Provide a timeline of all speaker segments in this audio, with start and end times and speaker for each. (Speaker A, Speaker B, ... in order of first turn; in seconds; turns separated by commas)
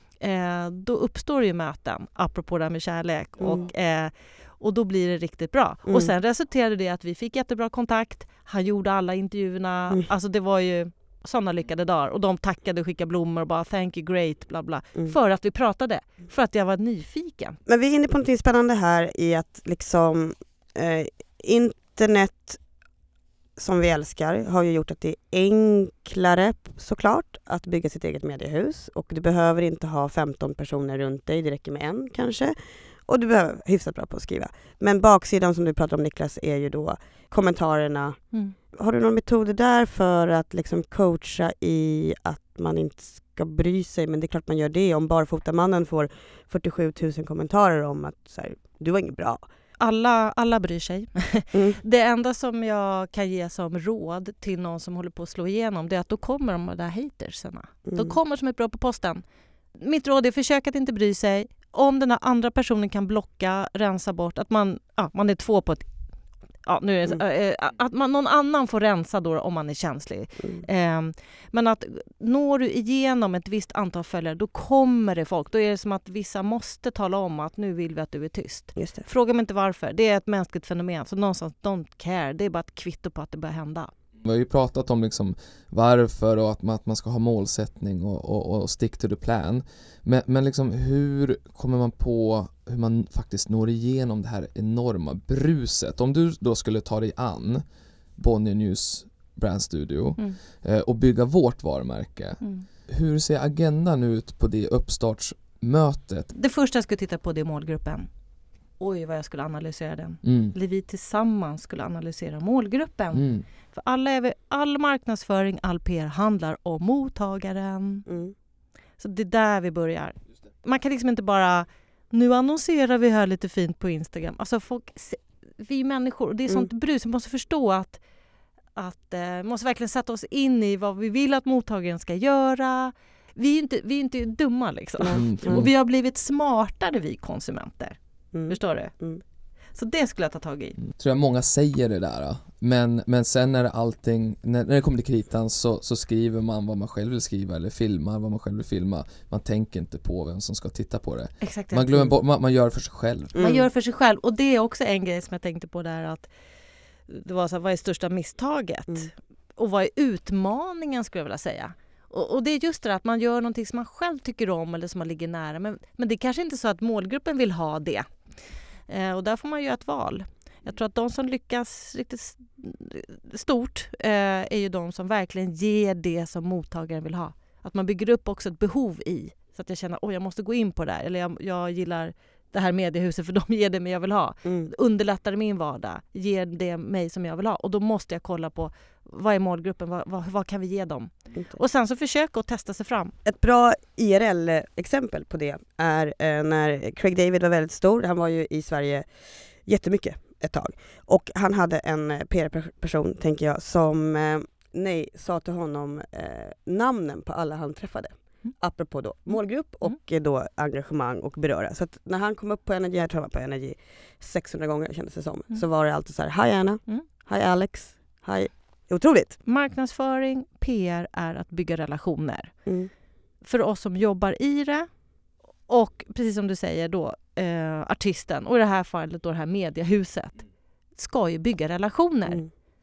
Speaker A: 0.2-17.6, Speaker B: 3.4-3.7, Speaker B: 17.7-22.6, Speaker B: 23.6-32.5, Speaker B: 33.0-38.2, Speaker B: 38.7-49.4, Speaker A: 49.8-59.2, Speaker B: 51.5-51.8, Speaker B: 57.9-58.2, Speaker A: 59.8-65.9, Speaker A: 66.7-83.9, Speaker B: 78.8-79.1, Speaker C: 84.2-97.6, Speaker C: 98.2-106.3, Speaker A: 102.4-102.7, Speaker A: 106.3-108.1, Speaker A: 108.8-118.0, Speaker C: 110.2-110.5, Speaker C: 113.1-113.4, Speaker B: 118.1-118.3, Speaker A: 119.0-128.0, Speaker A: 128.7-138.0, Speaker B: 135.0-135.6, Speaker C: 135.1-135.7, Speaker B: 138.3-139.2, Speaker A: 138.5-138.9, Speaker A: 139.7-140.8, Speaker C: 140.8-153.4, Speaker A: 151.4-152.1, Speaker B: 153.3-153.7, Speaker A: 153.4-156.3, Speaker A: 157.1-168.3, Speaker A: 168.9-193.1, Speaker B: 184.4-184.7, Speaker B: 193.2-219.4, Speaker A: 219.4-222.6, Speaker A: 223.4-224.9, Speaker A: 225.7-230.4, Speaker A: 230.9-232.4